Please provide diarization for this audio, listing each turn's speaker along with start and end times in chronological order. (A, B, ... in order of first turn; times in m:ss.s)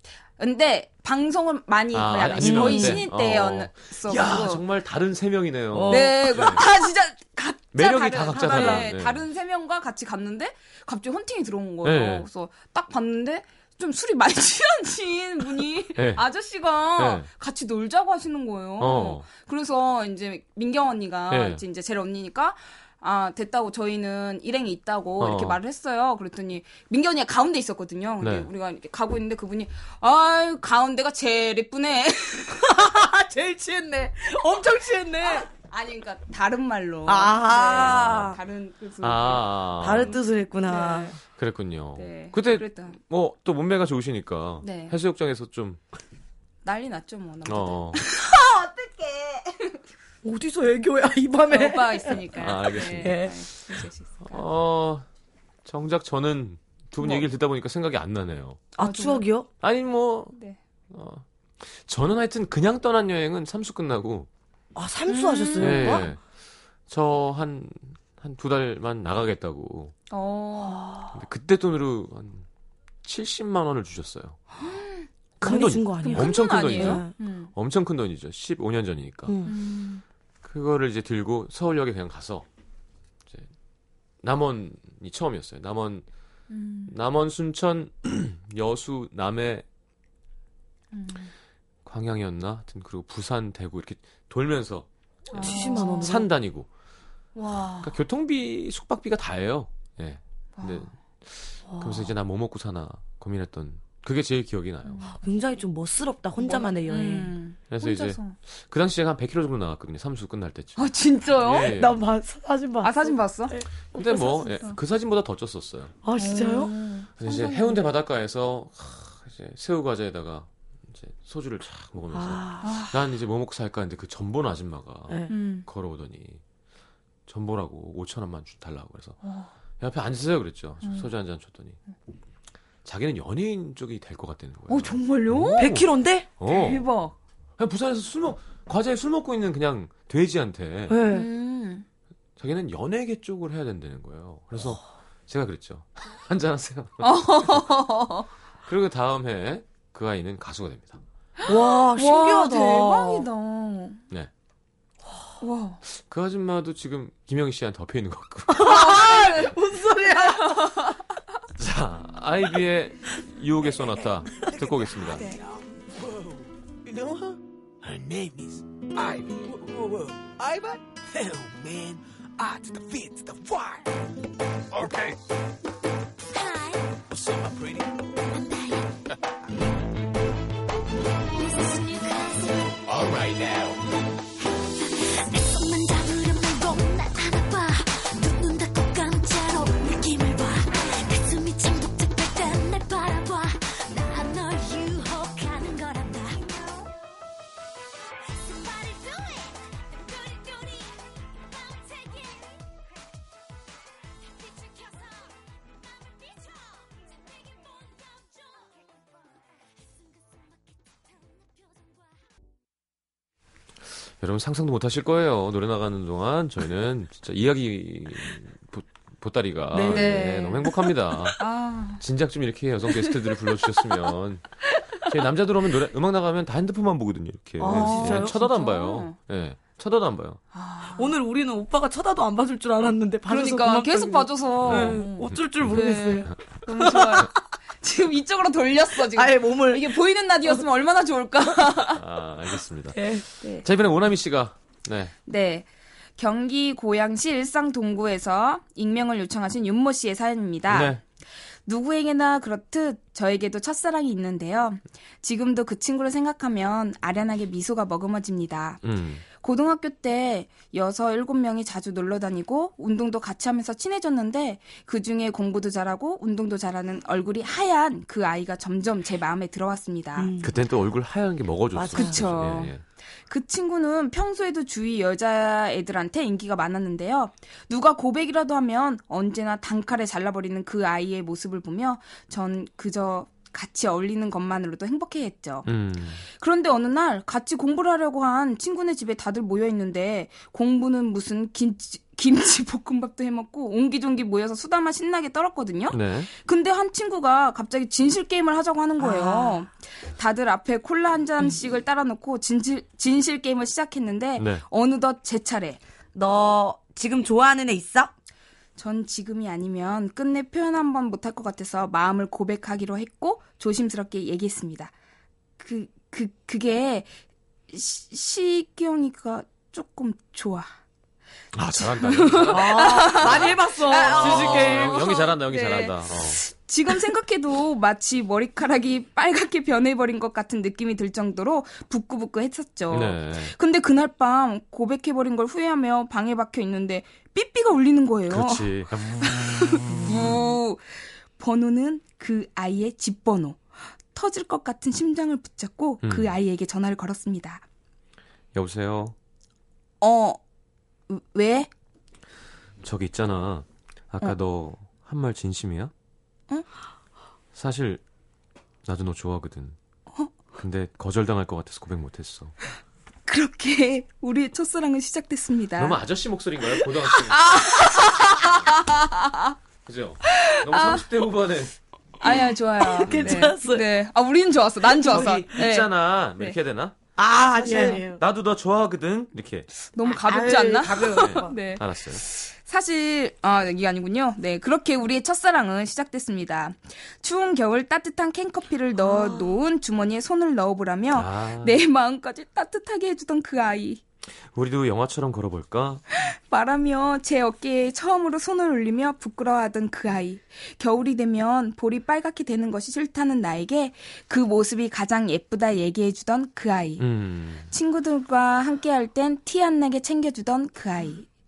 0:00.4-0:04.6 A
0:01.9-0:06.6 B
0:02.4-0:03.0 C
0:05.7-0:06.5 C
0:05.9-0:33.0 A
0:07.7-0:09.2 B
0:08.3-0:08.9 C
0:11.8-0:12.3 B
0:16.0-0:16.2 B
0:17.0-0:17.3 B
0:18.8-0:19.3 B
0:21.3-0:21.6 B
0:25.2-0:25.6 B
0:28.2-0:28.5 B
0:32.6-0:35.5 C
0:35.2-0:41.2 A
0:37.1-0:38.4 C
0:37.7-0:38.4 B
0:39.0-0:40.2 B
0:39.8-0:41.2 C
0:41.3-0:45.8 B
0:42.0-0:43.0 A
0:44.6-0:45.0 A
0:46.6-0:48.3 A
0:47.5-0:48.0 B
0:48.3-0:49.4 C
0:50.2-0:52.3 C
0:51.5-0:54.4 A
0:52.4-0:53.4 B
0:52.8-0:53.4 C
0:54.2-0:55.1 B
0:55.6-0:58.7 B
0:58.8-0:59.5 C
0:58.8-0:59.2 A
0:59.6-1:00.4 B
1:00.3-1:00.6 A
1:00.9-1:04.3 B
1:04.8-1:06.1 C
1:05.1-1:06.0 A
1:05.6-1:06.2 B
1:06.9-1:09.9 B
1:10.1-1:10.9 A
1:10.6-1:11.2 C
1:11.1-1:12.5 B
1:13.0-1:14.4 B
1:14.6-1:15.1 A
1:15.4-1:19.4 B
1:15.4-1:17.1 C
1:16.0-1:17.5 A
1:19.3-1:19.6 C
1:19.4-1:20.0 A
1:20.4-1:22.5 B
1:24.2-1:26.0 B
1:26.5-1:26.9 A
1:26.9-1:29.6 B
1:30.9-1:31.3 A
1:31.8-1:36.7 B
1:35.3-1:36.2 A
1:35.4-1:36.3 C
1:37.4-1:37.9 A
1:37.8-1:45.0 B
1:40.6-1:40.9 A
1:41.7-1:42.1 C
1:44.9-1:45.2 A
1:45.1-1:47.4 C
1:46.4-1:48.4 A
1:47.7-1:52.0 B
1:50.8-1:51.8 A
1:51.7-1:54.6 C
1:52.8-1:53.6 A
1:53.9-1:56.0 B
1:56.0-1:56.7 C
1:56.2-1:57.8 A
1:57.2-2:06.4 B
2:02.1-2:02.7 C
2:02.6-2:02.9 A
2:05.3-2:05.7 A
2:07.3-2:09.2 B
2:09.2-2:09.5 A
2:09.8-2:11.8 B
2:10.8-2:11.1 A
2:12.8-2:16.9 B
2:14.7-2:15.7 A
2:15.6-2:16.3 C
2:16.4-2:17.2 A
2:17.6-2:21.0 B
2:20.9-2:21.3 C
2:21.1-2:21.8 A
2:22.4-2:27.6 B
2:27.0-2:28.3 A
2:28.7-2:31.0 B
2:31.4-2:34.0 A
2:31.5-2:33.3 C
2:35.4-2:35.8 A
2:35.9-2:38.9 B
2:38.5-2:41.0 C
2:38.6-2:39.6 A
2:40.1-2:41.0 A
2:41.6-2:45.3 B
2:45.2-2:53.9 D
2:54.7-2:55.2 D
2:56.3-2:56.9 E
2:57.1-2:58.0 D
2:58.3-2:58.9 E
3:01.4-3:02.8 E
3:02.9-3:03.8 D
3:04.8-3:16.7 E
3:18.5-3:19.5 E
3:20.6-3:20.9 E
3:34.2-3:41.4 B
3:39.7-3:40.2 C
3:39.9-3:42.0 A
3:42.0-3:50.4 B
3:47.6-3:48.4 C
3:47.6-3:49.2 A
3:50.5-3:51.2 A
3:50.9-3:57.3 C
3:53.3-4:02.0 A
3:54.6-3:55.4 B
3:59.1-4:00.0 C
4:01.9-4:05.1 B
4:02.9-4:03.2 C
4:05.3-4:11.0 A
4:10.7-4:11.0 B
4:11.7-4:30.3 A
4:18.8-4:19.2 B
4:30.2-4:30.6 C
4:30.4-4:32.8 B
4:31.8-4:32.2 C
4:31.9-4:32.7 A
4:33.3-4:45.7 A
4:45.7-4:46.2 B
4:46.3-5:05.8 A
4:55.9-4:56.3 B
4:59.0-4:59.7 C
5:04.4-5:04.6 B
5:06.1-5:08.1 C
5:08.8-5:14.9 A
5:15.6-5:17.1 A
5:17.7-5:20.7 A
5:21.5-5:26.4 B
5:21.8-5:38.7 A
5:22.5-5:25.0 C
5:32.9-5:33.5 B
5:38.3-5:40.3 B
5:39.2-5:47.6 A
5:46.0-5:46.4 B
5:48.5-5:49.2 B
5:50.0-5:50.4 A
5:51.1-5:51.7 A
5:52.8-5:55.9 B
5:57.6-5:58.0 B
5:58.8-5:59.8 B
6:00.6-6:02.5 B
6:03.3-6:06.0 A
6:05.8-6:07.7 B
6:06.8-6:09.6 A
6:09.9-6:11.8 B
6:10.3-6:11.0 A
6:12.2-6:16.6 A
6:12.2-6:13.9 C
6:13.1-6:13.5 B
6:14.9-6:16.9 B
6:17.2-6:18.2 C
6:17.6-6:18.0 A
6:17.7-6:19.7 B
6:19.9-6:34.0 A
6:20.0-6:21.6 C
6:21.0-6:22.2 B
6:29.0-6:29.6 C
6:31.1-6:31.8 B
6:34.5-6:36.0 B
6:36.1-6:47.1 A
6:47.0-6:47.7 B
6:47.7-6:51.3 A